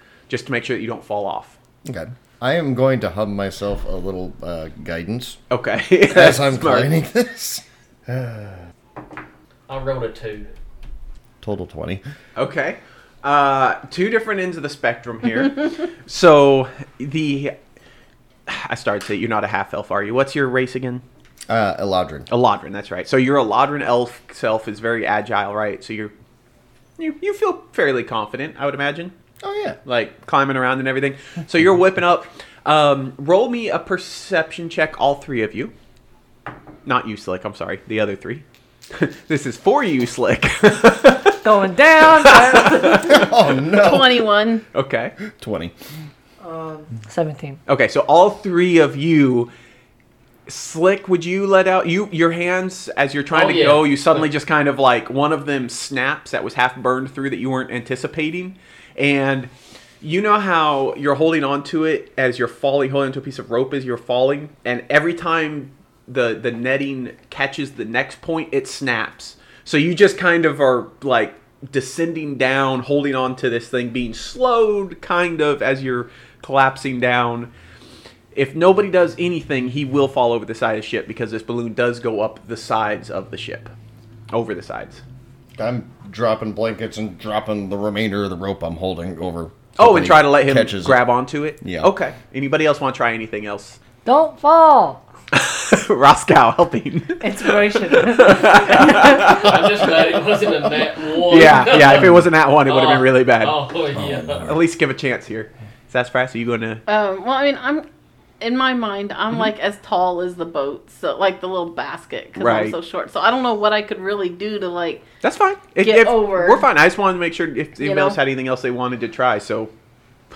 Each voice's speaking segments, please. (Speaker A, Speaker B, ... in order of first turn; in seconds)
Speaker A: 0.3-1.6, 5.5-6.9, 12.4-17.6, 18.5-21.0, 22.3-26.1, 27.0-29.1, 29.9-35.7, 36.9-43.4, 44.7-45.2, 47.7-49.5, 50.5-77.5, 78.3-83.7, 84.3-85.0, 89.8-93.8, 95.3-99.7, 101.3-103.5, 104.5-106.8, 112.4-112.8, 115.2-119.7
Speaker B: 1.9-5.4, 6.1-8.6, 11.4-12.0, 21.5-22.3, 29.4-29.8, 43.1-44.3, 45.3-45.7, 85.6-91.1, 91.6-91.9, 104.0-104.5
Speaker C: 9.7-10.5, 53.3-54.2, 98.8-104.5
Speaker D: 41.3-43.3, 46.4-47.6, 94.0-95.0, 97.2-99.4
Speaker E: 43.6-44.6, 106.9-107.8, 108.4-115.0, 115.8-116.7, 117.8-118.2